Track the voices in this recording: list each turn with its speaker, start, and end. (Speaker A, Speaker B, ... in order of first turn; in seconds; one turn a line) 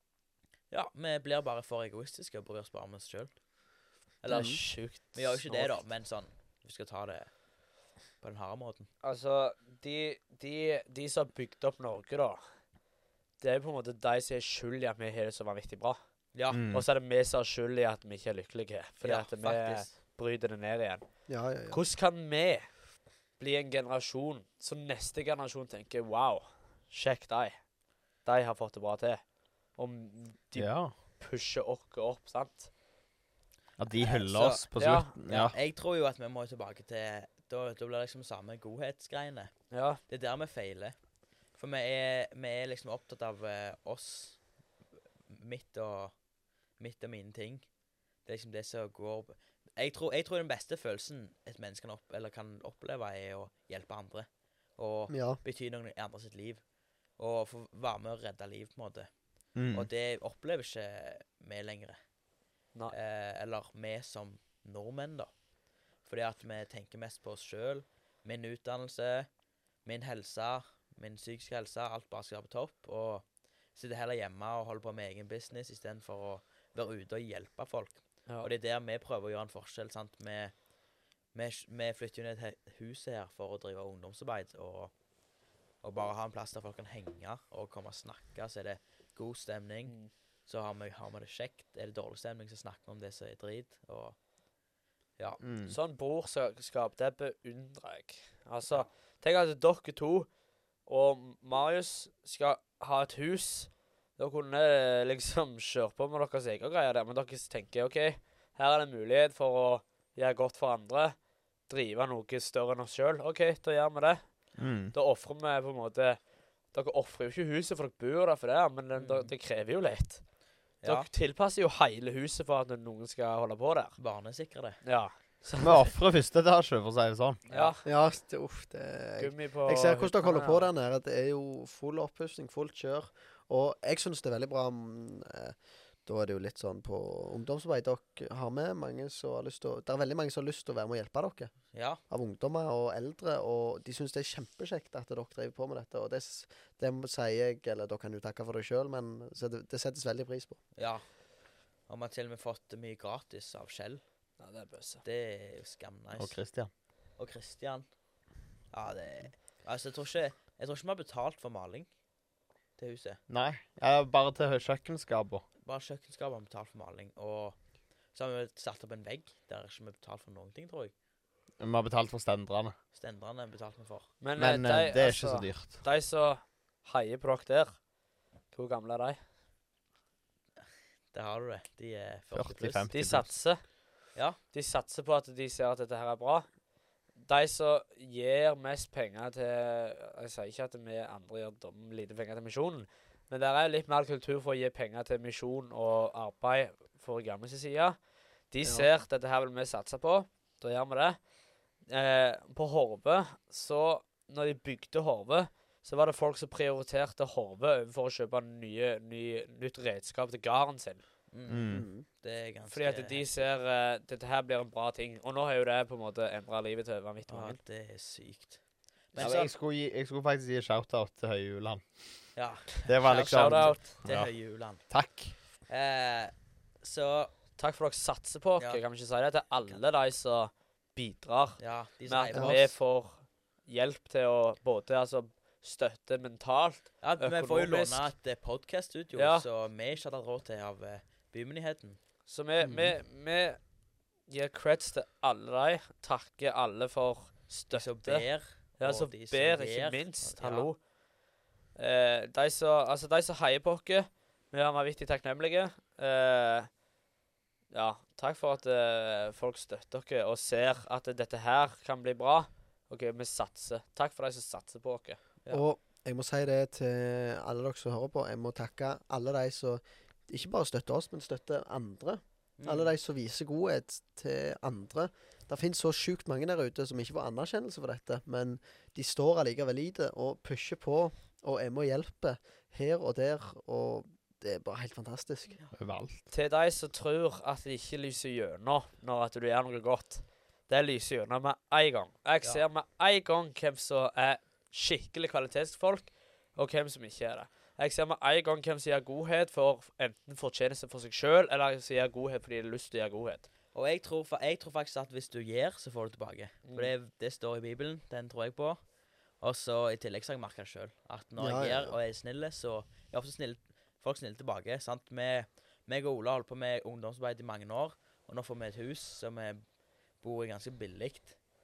Speaker A: 0.7-3.3
Speaker A: 4.2-7.3
Speaker B: 4.3-4.6
Speaker C: 4.3-5.8
Speaker A: 8.2-8.9
Speaker C: 9.0-12.4
Speaker C: 13.4-16.0
Speaker A: 16.3-16.6
Speaker D: 16.5-16.8
Speaker C: 16.7-21.1
Speaker A: 19.0-19.9
Speaker B: 21.3-21.8
Speaker C: 21.7-22.7
Speaker C: 23.4-27.6
Speaker C: 28.2-29.2
Speaker C: 29.8-32.7
Speaker D: 30.6-30.9
Speaker D: 33.8-35.5
Speaker A: 33.9-41.0
Speaker C: 34.8-35.1
Speaker C: 39.7-40.0
Speaker A: 41.5-44.4
Speaker A: 45.3-46.1
Speaker A: 46.8-47.6
Speaker A: 48.2-56.6
Speaker B: 55.1-55.4
Speaker A: 57.2-59.1
Speaker D: 59.5-59.9
Speaker A: 59.7-62.0
Speaker A: 62.9-65.3
Speaker A: 66.0-69.3
Speaker A: 69.8-73.2
Speaker A: 73.8-80.5
Speaker A: 81.3-84.9
Speaker A: 85.8-90.0
Speaker A: 90.5-94.2
Speaker D: 95.4-95.8
Speaker C: 95.7-100.3
Speaker C: 100.9-111.2
Speaker C: 111.7-114.2
Speaker D: 114.6-114.9
Speaker C: 114.9-116.2
Speaker C: 116.7-120.2
Speaker A: 119.0-119.3
Speaker A: 120.8-121.1
Speaker C: 120.8-124.0
Speaker A: 124.0-124.8
Speaker C: 124.8-125.8
Speaker D: 125.6-127.4
Speaker C: 127.5-127.8
Speaker A: 127.5-127.8
Speaker B: 127.8-141.5
Speaker C: 129.2-130.7
Speaker A: 141.7-142.0
Speaker B: 142.1-150.6
Speaker A: 150.8-151.0
Speaker A: 151.9-154.0
Speaker C: 154.4-155.0
Speaker A: 155.0-156.3
Speaker D: 156.2-156.7
Speaker A: 157.2-157.8
Speaker A: 158.7-161.9
Speaker A: 162.8-163.2
Speaker D: 163.3-165.4
Speaker A: 165.6-167.6
Speaker A: 168.1-170.9
Speaker D: 171.6-172.7
Speaker A: 172.9-174.1
Speaker C: 174.2-177.8
Speaker D: 174.4-175.8
Speaker C: 178.5-179.2
Speaker A: 181.1-182.9
Speaker D: 182.3-183.3
Speaker C: 182.9-183.6
Speaker C: 184.5-186.5
Speaker C: 187.2-198.0
Speaker C: 198.5-201.2
Speaker C: 201.9-211.0
Speaker A: 211.3-213.4
Speaker D: 211.5-211.8
Speaker B: 211.7-212.0
Speaker C: 212.7-217.6
Speaker A: 217.3-218.6
Speaker A: 219.1-219.5
Speaker D: 219.2-221.8
Speaker A: 222.3-224.8
Speaker D: 222.8-224.3
Speaker C: 223.1-223.9
Speaker D: 224.9-225.3
Speaker A: 225.7-227.3
Speaker C: 227.6-238.1
Speaker A: 231.6-232.7
Speaker B: 232.3-232.6
Speaker A: 237.0-242.0
Speaker C: 239.2-239.4
Speaker C: 242.3-243.6
Speaker B: 242.6-242.9
Speaker C: 244.3-248.2
Speaker A: 247.7-250.7
Speaker C: 248.8-250.8
Speaker C: 251.7-256.7
Speaker C: 257.7-265.2
Speaker B: 265.5-285.6
Speaker A: 272.6-272.9
Speaker D: 285.7-286.2
Speaker C: 286.3-303.4
Speaker A: 303.7-308.8
Speaker A: 309.4-319.6
Speaker B: 311.4-311.9
Speaker A: 320.2-321.3